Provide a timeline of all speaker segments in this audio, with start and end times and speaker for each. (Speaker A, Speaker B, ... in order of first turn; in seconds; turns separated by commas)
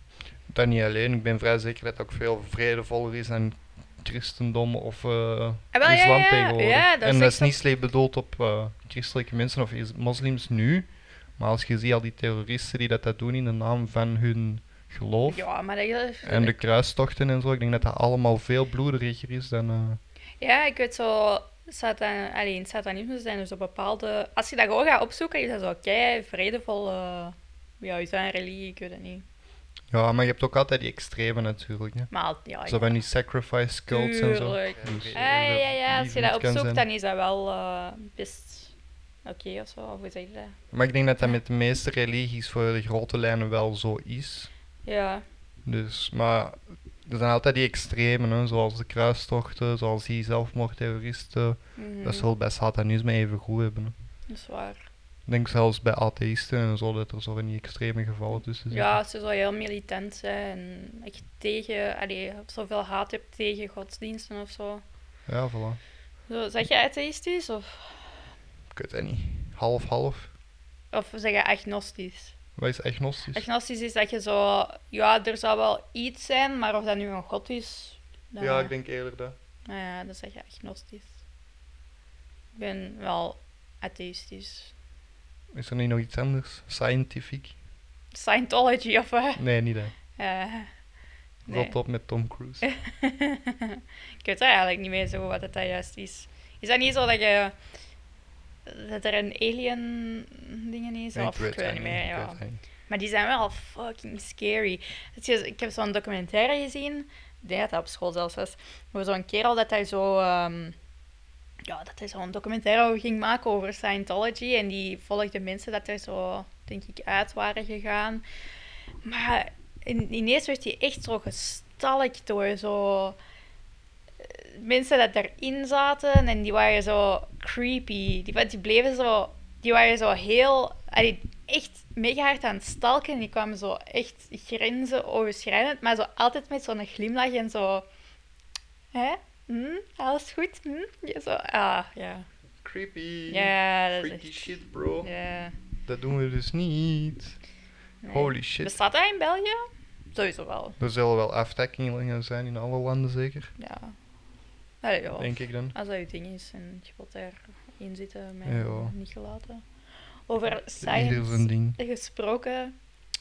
Speaker A: 0.5-15.4, Speaker B: 5.7-7.5, Speaker B: 15.3-16.6, Speaker A: 16.2-20.0, Speaker B: 20.4-29.2, Speaker A: 29.9-32.1, Speaker B: 32.1-33.0, Speaker A: 32.6-36.8, Speaker B: 33.9-38.7, Speaker B: 39.2-40.5, Speaker A: 40.7-44.5, Speaker B: 44.9-45.2, Speaker A: 45.6-53.9, Speaker B: 51.8-52.3, Speaker B: 54.3-54.8, Speaker A: 55.3-59.0, Speaker B: 58.7-64.8, Speaker A: 65.3-65.8, Speaker B: 66.3-68.1, Speaker A: 68.7-70.3, Speaker B: 70.9-72.3, Speaker A: 72.6-73.4, Speaker B: 73.3-78.7, Speaker A: 78.4-79.3, Speaker B: 79.7-81.2, Speaker B: 82.5-84.7, Speaker A: 85.5-87.5, Speaker B: 88.1-89.4, Speaker A: 89.4-89.9, Speaker B: 90.2-90.7, Speaker B: 91.5-91.7, Speaker A: 91.5-92.6, Speaker B: 92.6-97.5, Speaker B: 98.7-110.8, Speaker A: 101.1-102.6, Speaker B: 111.7-118.2, Speaker B: 119.0-123.2, Speaker B: 124.2-137.8, Speaker B: 138.9-142.3, Speaker A: 142.6-145.1, Speaker B: 143.3-145.5, Speaker A: 145.8-147.4, Speaker B: 148.0-150.8, Speaker A: 148.1-148.8, Speaker A: 150.8-153.5, Speaker B: 153.6-153.9, Speaker B: 154.8-159.6, Speaker A: 155.2-155.7, Speaker A: 158.4-158.9, Speaker B: 160.3-162.7, Speaker A: 160.8-161.8